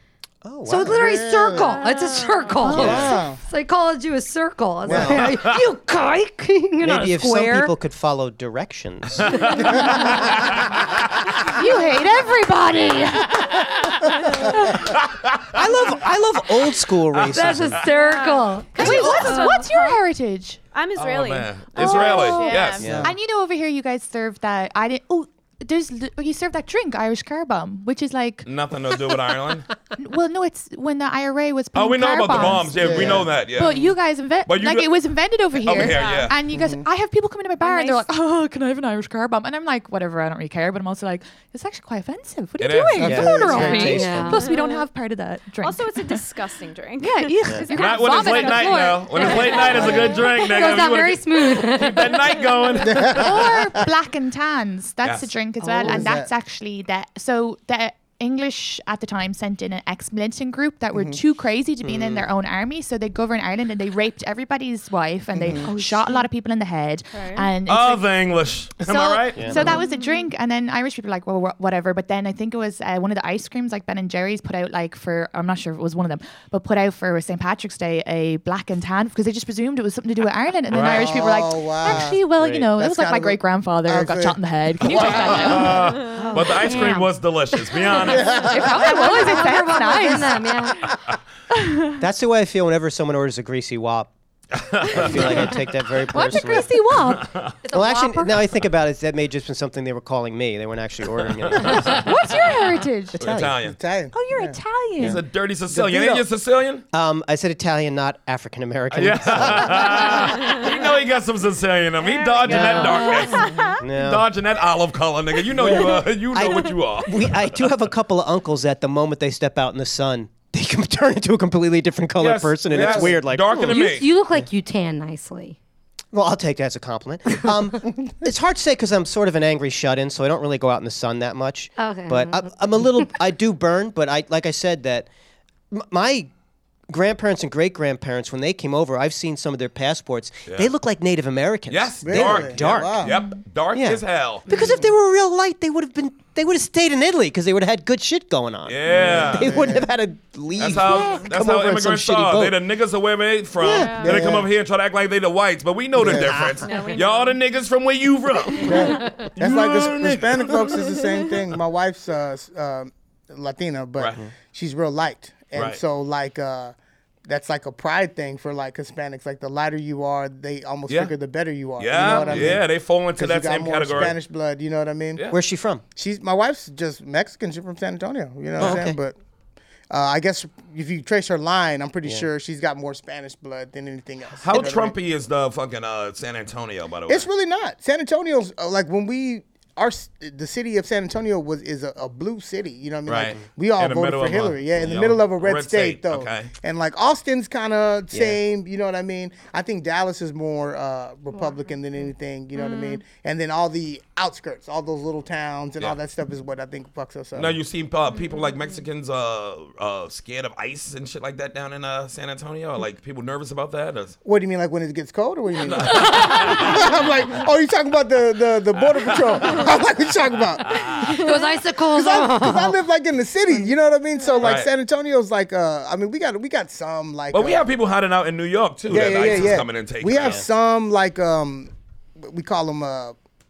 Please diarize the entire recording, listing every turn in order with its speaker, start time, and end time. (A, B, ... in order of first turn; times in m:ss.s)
0:00.4-0:01.3 A
0:00.6-0:07.6 B
0:00.8-0:01.8 C
0:01.7-0:02.8 D
0:02.7-0:03.4 C
0:02.7-0:03.1 A
0:04.9-0:05.2 A
0:04.9-0:05.2 C
0:05.1-0:05.6 E
0:06.8-0:09.3 A
0:09.2-0:11.4 E
0:09.3-0:09.9 B
0:11.4-0:14.6 F
0:14.8-0:15.5 E
0:15.5-0:17.8 A
0:17.1-0:17.9 E
0:17.2-0:19.1 B
0:17.9-0:20.0 D
0:18.7-0:20.6 F
0:18.8-0:19.4 A
0:20.7-0:22.9 D
0:21.0-0:22.9 E
0:21.8-0:28.5 F
0:22.8-0:23.1 A
0:22.8-0:23.1 C
0:28.4-0:29.7 E
0:30.0-0:33.0 F
0:31.7-0:33.8 E
0:32.3-0:33.9 C
0:32.4-0:33.3 A
0:33.5-0:46.3 F
0:34.4-0:34.9 E
0:35.6-0:36.4 E
0:35.7-0:36.3 D
0:36.5-0:36.8 C
0:37.6-0:38.0 D
0:42.6-0:43.6 E
0:43.0-0:43.9 C
0:43.0-0:44.4 A
0:43.4-0:44.5 B
0:44.3-0:44.8 D
0:45.6-0:50.5 D
0:47.0-0:49.9 F
0:47.7-0:53.4 E
0:49.2-0:52.6 B
0:52.8-0:53.7 C
0:53.1-1:08.1 F
0:55.7-0:55.9 B
0:55.8-0:56.3 C
1:00.9-1:01.2 C
1:01.8-1:02.3 A
1:05.3-1:05.7 C
1:05.9-1:06.2 D
1:07.1-1:07.5 D
1:07.7-1:09.8 E
1:08.8-1:25.8 F
1:09.6-1:10.3 D
1:20.7-1:21.2 E
1:20.7-1:22.2 C
1:22.4-1:22.7 A
1:22.8-1:25.8 C
1:24.9-1:28.6 E
1:26.0-1:27.2 B
1:27.7-1:30.9 B
1:28.1-1:28.7 C
1:28.3-1:30.4 F
1:30.8-1:31.1 E
1:32.0-1:34.1 A
1:34.6-1:35.7 E
1:34.9-1:36.7 A
1:36.1-1:37.4 F
1:37.1-1:37.5 E
1:37.6-1:38.4 B
1:37.7-1:42.1 A
1:41.5-1:42.0 E
1:41.9-1:43.2 F
1:43.1-1:43.7 A
1:43.2-1:43.8 E
1:43.6-1:44.6 C
1:44.1-1:45.2 F
1:45.0-1:46.8 E
1:45.7-1:46.2 C
1:46.9-1:50.5 A
1:48.9-1:57.4 E
1:50.3-1:50.7 D
1:52.0-1:53.8 D
1:52.4-1:53.2 A
1:53.8-1:54.3 A
1:55.6-1:56.0 C
1:56.3-2:04.4 A
2:02.2-2:04.1 E
2:02.7-2:03.1 C
2:03.5-2:05.6 B
2:06.1-2:15.1 A
2:07.3-2:07.5 B
2:11.8-2:13.1 B
2:15.7-2:16.3 A
2:16.9-2:23.2 A
2:21.7-2:24.5 E
2:22.0-2:23.1 C
2:23.0-2:23.4 F
2:23.7-2:32.6 A
2:24.5-2:24.8 B
2:28.7-2:29.5 E
2:28.9-2:29.9 C
2:30.6-2:41.0 E
2:33.6-2:34.3 A
2:33.6-2:34.2 D
2:34.0-2:34.5 C
2:35.9-2:36.4 C
2:35.9-2:36.8 A
2:36.6-2:37.4 D
2:38.5-2:39.2 D
2:38.6-2:39.4 B
2:38.6-2:46.7 C
2:45.5-2:45.8 E
2:47.3-2:55.2 C
2:50.9-2:51.1 E
2:51.8-2:54.2 E
2:51.9-2:52.6 A
2:55.3-2:55.8 A
2:55.9-2:59.1 C
2:58.6-2:59.0 A
2:58.6-2:58.8 E
2:59.9-3:05.0 C
3:04.4-3:07.3 E
3:07.1-3:27.6 C
3:13.1-3:16.5 E
3:18.1-3:18.4 A
3:21.3-3:21.7 B
3:22.5-3:23.0 D
3:27.4-3:34.2 E
3:28.1-3:28.8 D
3:34.2-3:40.8 C
3:35.6-3:37.4 E
3:38.8-3:39.7 E
3:40.6-3:41.3 E
3:41.0-3:42.8 B
3:41.9-3:47.7 C
3:44.4-3:44.7 E
3:47.3-3:50.4 E
3:48.9-3:53.1 C
3:50.2-3:50.4 A